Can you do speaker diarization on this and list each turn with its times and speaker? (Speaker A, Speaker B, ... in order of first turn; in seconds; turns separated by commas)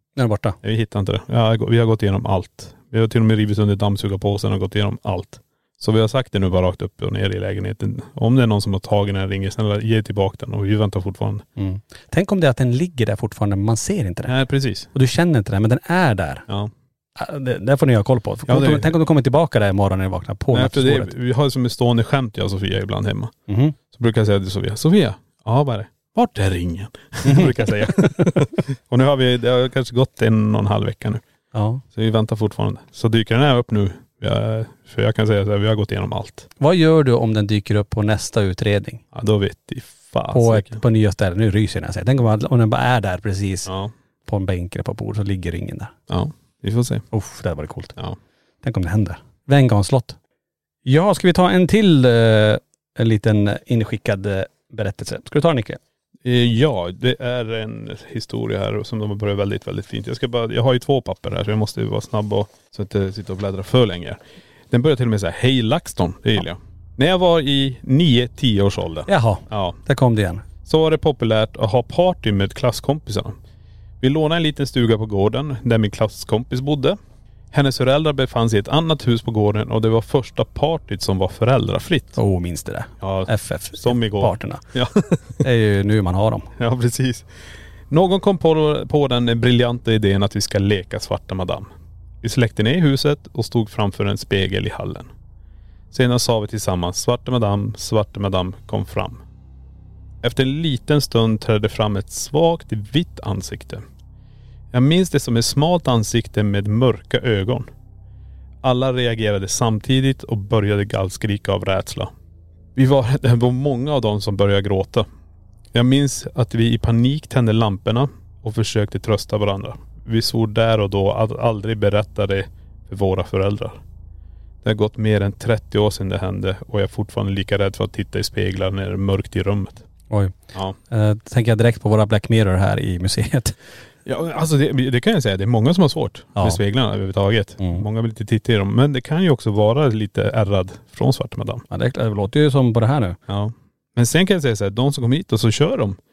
Speaker A: 0.1-0.6, Speaker B: 0.6-11.4, Speaker A: 11.6-14.3, Speaker B: 14.3-14.9, Speaker A: 14.9-16.4, Speaker A: 17.2-21.1, Speaker B: 18.5-18.9, Speaker B: 20.5-23.3, Speaker A: 23.5-23.8, Speaker B: 23.9-31.2, Speaker A: 27.2-28.3, Speaker A: 31.5-31.8, Speaker B: 31.9-36.5, Speaker A: 36.6-39.0, Speaker B: 39.1-40.8, Speaker A: 40.3-43.7, Speaker B: 43.6-43.9, Speaker A: 44.2-45.9, Speaker B: 46.1-47.0, Speaker A: 47.1-48.0, Speaker A: 48.6-50.2, Speaker A: 50.8-55.8, Speaker B: 56.2-69.8, Speaker A: 69.1-70.4, Speaker B: 70.6-73.4, Speaker B: 74.0-77.0, Speaker B: 77.5-82.2, Speaker A: 82.2-84.6, Speaker B: 83.0-85.4, Speaker A: 85.4-86.5, Speaker B: 86.6-87.3, Speaker B: 87.9-91.7, Speaker B: 92.2-95.1, Speaker B: 95.9-99.2, Speaker B: 100.2-103.8, Speaker B: 104.7-107.7, Speaker B: 108.6-112.1, Speaker B: 112.7-115.1, Speaker B: 115.7-123.8, Speaker B: 124.6-129.9, Speaker A: 130.1-130.3, Speaker A: 130.9-133.6, Speaker B: 134.1-141.6, Speaker A: 141.7-143.2, Speaker B: 143.3-146.0